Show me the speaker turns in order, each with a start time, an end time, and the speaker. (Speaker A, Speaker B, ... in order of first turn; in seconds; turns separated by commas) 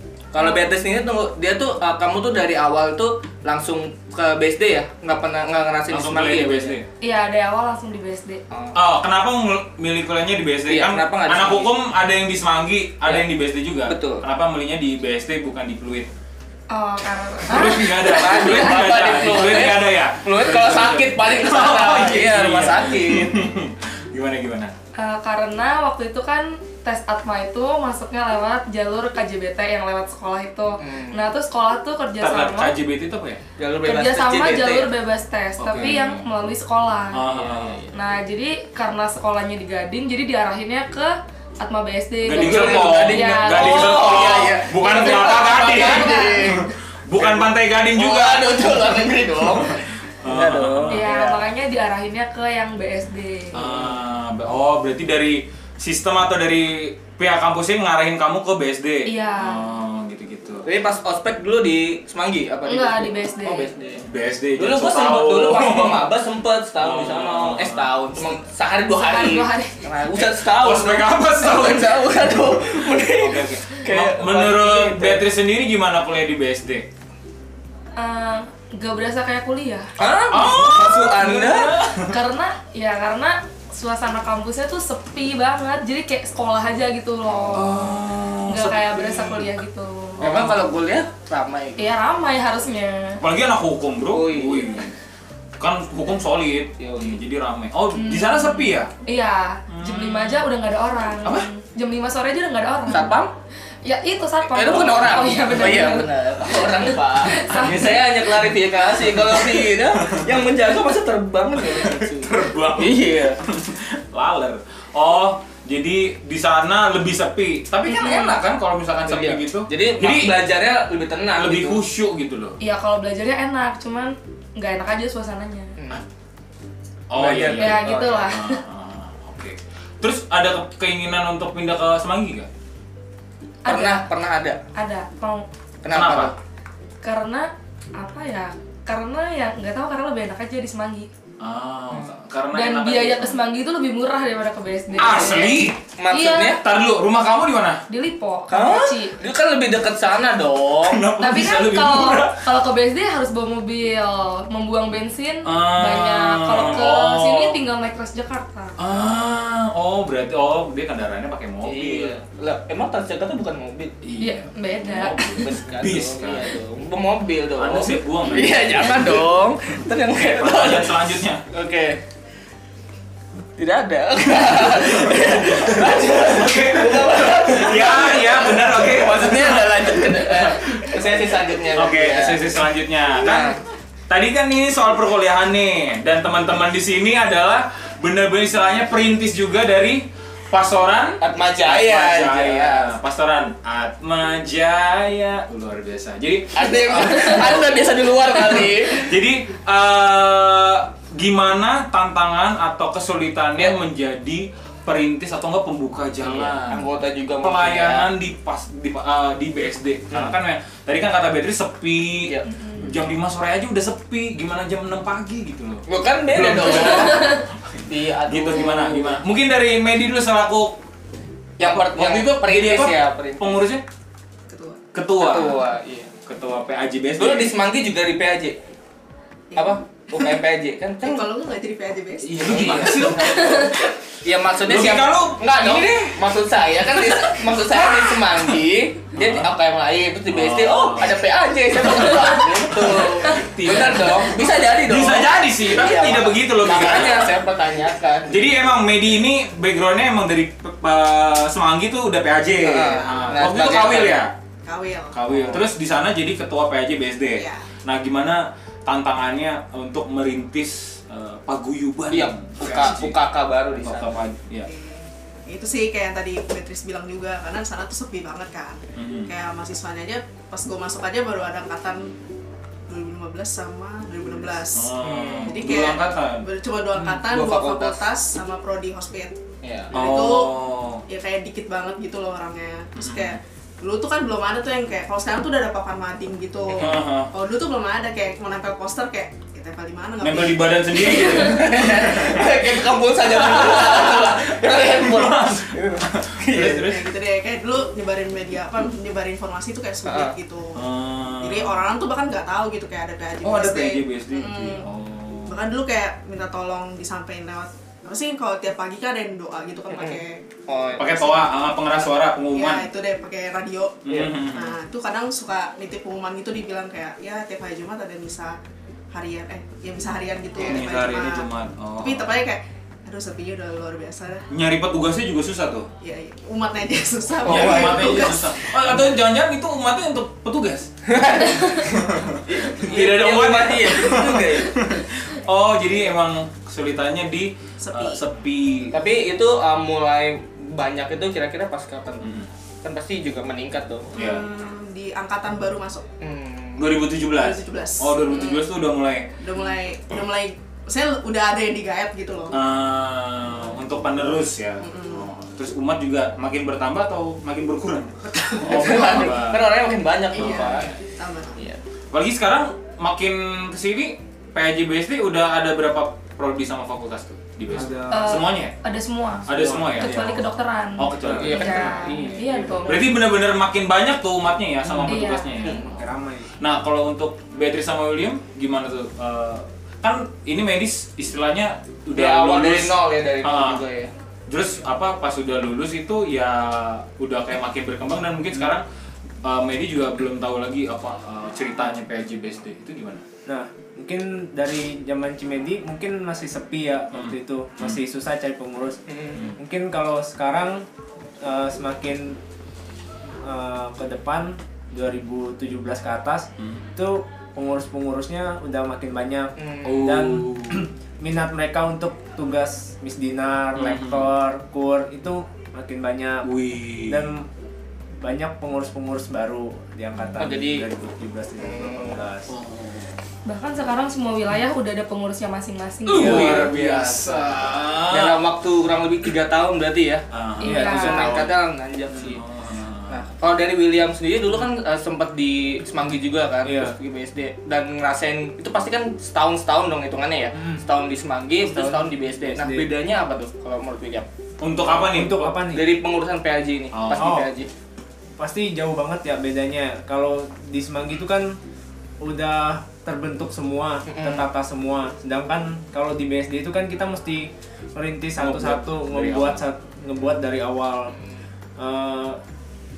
Speaker A: 0.3-6.8, Speaker B: 5.9-6.9, Speaker C: 7.0-8.4, Speaker A: 8.5-8.8, Speaker B: 8.7-16.1, Speaker A: 10.7-11.7, Speaker A: 13.0-13.3, Speaker A: 13.8-14.2, Speaker C: 16.7-18.9, Speaker B: 17.4-24.7, Speaker A: 18.1-23.4, Speaker C: 24.9-32.7, Speaker A: 30.8-31.2, Speaker B: 32.2-33.4, Speaker A: 33.6-34.9, Speaker C: 33.8-37.3, Speaker B: 35.6-36.2, Speaker B: 37.1-37.8, Speaker A: 37.3-38.0, Speaker C: 37.9-46.6, Speaker B: 42.2-51.0, Speaker A: 42.3-51.4, Speaker C: 50.9-53.7, Speaker B: 53.5-60.6, Speaker C: 59.0-59.7, Speaker A: 60.6-64.0, Speaker C: 62.6-63.7, Speaker B: 64.0-66.1, Speaker A: 64.6-75.2, Speaker B: 66.8-68.3, Speaker C: 69.0-69.8, Speaker B: 70.1-76.9, Speaker C: 78.0-79.9, Speaker A: 80.0-81.8, Speaker B: 80.3-82.2, Speaker C: 82.0-90.2, Speaker B: 87.5-89.5, Speaker B: 90.2-90.7, Speaker A: 90.2-91.9, Speaker C: 91.8-93.2, Speaker B: 93.2-94.9, Speaker A: 94.1-94.9, Speaker B: 95.6-98.9, Speaker A: 96.8-97.2, Speaker C: 97.9-103.2, Speaker B: 99.7-100.5, Speaker A: 102.9-103.3, Speaker C: 103.8-108.2, Speaker A: 104.5-113.4, Speaker B: 104.6-105.7, Speaker B: 107.5-110.5, Speaker B: 111.5-120.5, Speaker A: 117.9-118.2, Speaker C: 118.0-118.3, Speaker A: 119.0-121.8, Speaker B: 121.4-122.6, Speaker C: 122.6-125.7, Speaker A: 125.8-126.0, Speaker B: 127.1-132.5, Speaker A: 127.1-128.3, Speaker C: 127.3-128.6, Speaker C: 133.6-134.0, Speaker A: 133.7-134.6, Speaker C: 134.7-135.5, Speaker A: 135.8-136.3, Speaker B: 135.9-136.3, Speaker C: 137.0-141.1, Speaker B: 141.4-143.4, Speaker C: 142.5-146.6, Speaker B: 145.0-145.8, Speaker A: 146.0-146.6, Speaker B: 146.6-147.8, Speaker C: 147.9-149.2, Speaker A: 148.5-151.0, Speaker B: 150.8-152.4, Speaker C: 151.2-158.8, Speaker B: 155.4-157.6, Speaker B: 158.8-162.2, Speaker A: 161.6-163.9, Speaker B: 164.0-166.5, Speaker C: 164.2-165.5, Speaker A: 165.1-172.0, Speaker B: 167.6-169.3, Speaker B: 170.1-171.4, Speaker A: 173.6-182.5, Speaker B: 174.3-183.6, Speaker A: 183.2-183.6, Speaker B: 184.1-197.8, Speaker A: 191.2-192.9, Speaker A: 196.5-199.2, Speaker B: 198.4-206.9, Speaker A: 206.2-208.1, Speaker B: 207.4-220.8, Speaker C: 212.4-212.8, Speaker A: 215.8-219.2, Speaker C: 217.1-217.4, Speaker A: 221.6-223.6, Speaker B: 221.6-223.8, Speaker D: 224.5-224.8, Speaker B: 224.9-225.6, Speaker A: 225.2-226.1, Speaker B: 226.2-227.5, Speaker A: 227.2-228.6, Speaker D: 229.5-229.8, Speaker A: 229.6-231.2, Speaker D: 231.0-232.9, Speaker B: 232.2-233.8, Speaker A: 232.4-248.4, Speaker B: 234.6-236.2, Speaker B: 236.8-238.5, Speaker B: 239.1-239.5, Speaker B: 240.3-247.4, Speaker B: 248.3-254.3, Speaker A: 252.6-254.2, Speaker D: 254.6-255.2, Speaker B: 255.1-263.2, Speaker A: 255.2-255.6, Speaker D: 257.3-257.7, Speaker A: 262.1-264.3, Speaker B: 263.7-264.7, Speaker D: 264.6-272.1, Speaker B: 268.9-269.3, Speaker D: 272.9-279.4, Speaker B: 274.7-276.5, Speaker A: 275.0-275.9, Speaker A: 277.2-278.0, Speaker A: 279.6-279.9, Speaker D: 279.9-280.6, Speaker B: 279.9-281.0, Speaker D: 281.1-291.3, Speaker B: 283.0-283.4, Speaker B: 286.7-287.3, Speaker B: 290.2-297.1, Speaker A: 290.9-296.9, Speaker D: 296.7-304.9, Speaker A: 300.0-300.3, Speaker B: 300.7-301.8, Speaker B: 303.4-305.6, Speaker D: 305.4-310.4, Speaker A: 309.9-311.5, Speaker B: 311.0-312.9, Speaker D: 312.5-318.6, Speaker B: 314.0-314.8, Speaker D: 319.1-321.5, Speaker B: 320.6-322.3, Speaker D: 322.0-324.5, Speaker B: 324.5-325.9, Speaker D: 326.0-328.8, Speaker B: 327.4-339.0, Speaker A: 327.4-328.3, Speaker A: 331.0-334.8, Speaker D: 337.8-338.2, Speaker A: 338.9-342.3, Speaker B: 342.2-342.5, Speaker A: 342.8-344.1, Speaker B: 344.1-344.4, Speaker D: 344.1-346.0, Speaker A: 346.2-346.9, Speaker B: 346.8-349.3, Speaker D: 347.2-348.7, Speaker D: 349.4-352.6, Speaker B: 352.5-359.7, Speaker D: 354.8-355.3, Speaker D: 358.4-359.2, Speaker A: 358.6-360.9, Speaker B: 360.3-360.9, Speaker D: 360.3-361.6, Speaker B: 362.1-368.7, Speaker E: 367.7-368.4, Speaker C: 368.1-373.1, Speaker B: 369.5-370.4, Speaker E: 369.5-370.2, Speaker A: 370.0-370.3, Speaker B: 371.0-372.2, Speaker A: 371.2-373.0, Speaker E: 371.5-372.4, Speaker B: 372.9-376.0, Speaker E: 374.9-376.5, Speaker C: 375.1-375.5, Speaker A: 375.6-375.9, Speaker B: 376.6-383.8, Speaker A: 382.1-384.1, Speaker B: 384.5-388.8, Speaker B: 389.4-393.2, Speaker E: 393.4-400.9, Speaker B: 397.1-398.0, Speaker A: 399.1-399.4, Speaker E: 401.4-402.4, Speaker E: 403.4-416.5, Speaker A: 409.6-410.2, Speaker B: 409.8-410.8, Speaker B: 413.7-414.3, Speaker B: 416.4-417.3, Speaker E: 417.0-417.5, Speaker E: 418.2-422.5, Speaker A: 420.4-420.8, Speaker A: 421.6-422.2, Speaker B: 422.5-423.1, Speaker C: 423.4-426.7, Speaker B: 426.1-428.4, Speaker E: 426.1-426.6, Speaker A: 426.1-427.5, Speaker A: 428.1-432.4, Speaker B: 430.3-430.9, Speaker C: 430.6-431.4, Speaker E: 430.6-431.6, Speaker B: 432.1-433.2, Speaker A: 433.1-444.3, Speaker E: 436.6-437.0, Speaker E: 440.5-440.8, Speaker E: 441.6-442.9, Speaker B: 444.6-445.6, Speaker E: 444.9-446.0, Speaker A: 445.7-447.7, Speaker B: 446.9-447.4, Speaker E: 447.1-447.5, Speaker E: 448.4-451.6, Speaker E: 452.2-461.1, Speaker A: 454.1-454.5, Speaker B: 458.4-459.6, Speaker E: 461.8-462.4